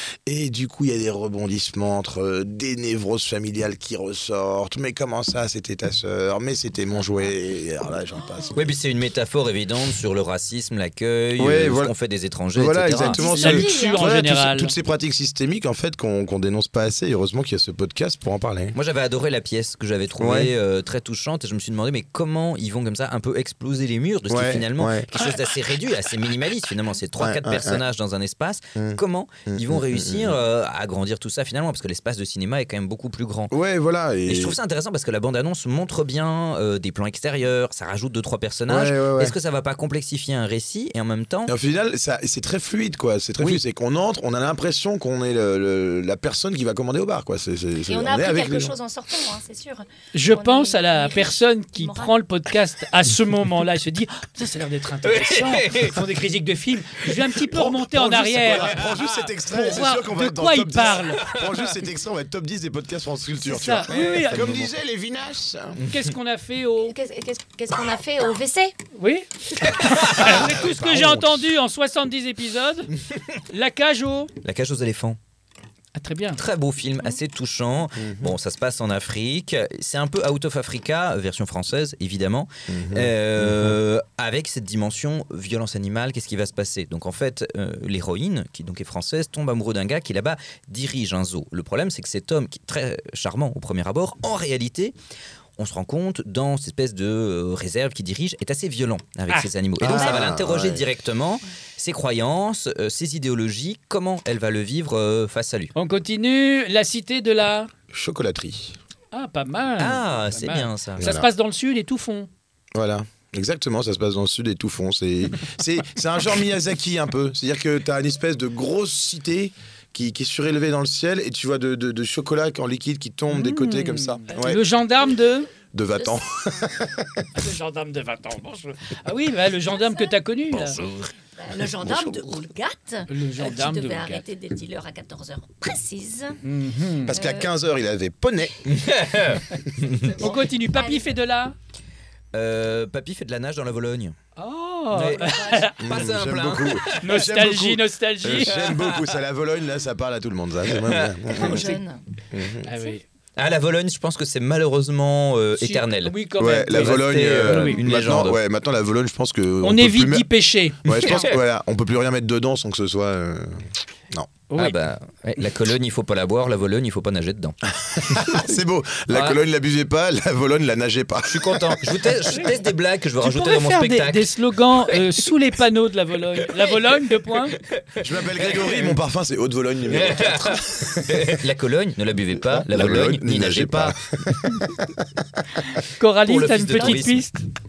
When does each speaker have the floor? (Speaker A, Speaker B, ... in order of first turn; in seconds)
Speaker A: 0.3-8.7, 11.4-11.9, 12.5-18.8, 20.2-20.5, 24.3-25.1, 27.2-27.8, 28.8-30.4, 33.5-34.6, 38.7-39.4, 41.5-48.7, 57.5-65.8, 70.2-71.5, 78.0-78.3, 82.7-83.8, 99.8-100.8, 107.9-108.8, 111.0-111.3, 112.7-124.6, 125.7-127.5, 131.6-132.4, 137.1-138.6, 145.8-151.8, 152.3-152.7, 156.4-160.3, 160.8-164.3, 167.7-171.8, 178.0-181.4, 182.3-184.9
Speaker B: 8.5-13.3, 18.7-33.5, 34.3-41.5, 55.0-56.0, 58.5-59.2, 61.0-61.8, 65.8-66.1, 69.6-70.5, 74.4-75.2, 76.4-95.0, 95.6-105.7, 109.8-111.1, 138.6-140.1, 142.3-144.2, 144.9-147.4, 148.4-149.2, 150.7-151.2, 153.4-156.2, 156.7-158.4, 160.9-161.3, 164.6-168.5, 169.1-169.4, 171.2-175.2, 176.4-176.9, 177.5-179.0, 179.9-184.0, 186.2-187.3
Speaker C: 13.0-14.2, 47.9-52.1, 66.8-68.8, 129.7-130.2, 131.3-136.4, 137.1-137.5, 139.9-141.2, 145.2-145.7, 151.3-152.0, 186.8-187.1
Speaker D: 13.3-14.7, 50.1-61.4, 63.4-64.7, 65.9-67.0, 68.9-72.9, 73.5-74.3, 76.0-76.4, 105.8-107.7, 109.1-112.3, 123.3-125.5, 127.4-130.8, 133.1-134.2, 136.4-137.2, 140.2-141.6, 144.4-145.8, 147.0-148.8, 152.7-153.1, 155.6-157.8, 159.6-161.3, 164.5-164.8, 172.3-172.6, 173.2-177.6, 185.8-187.4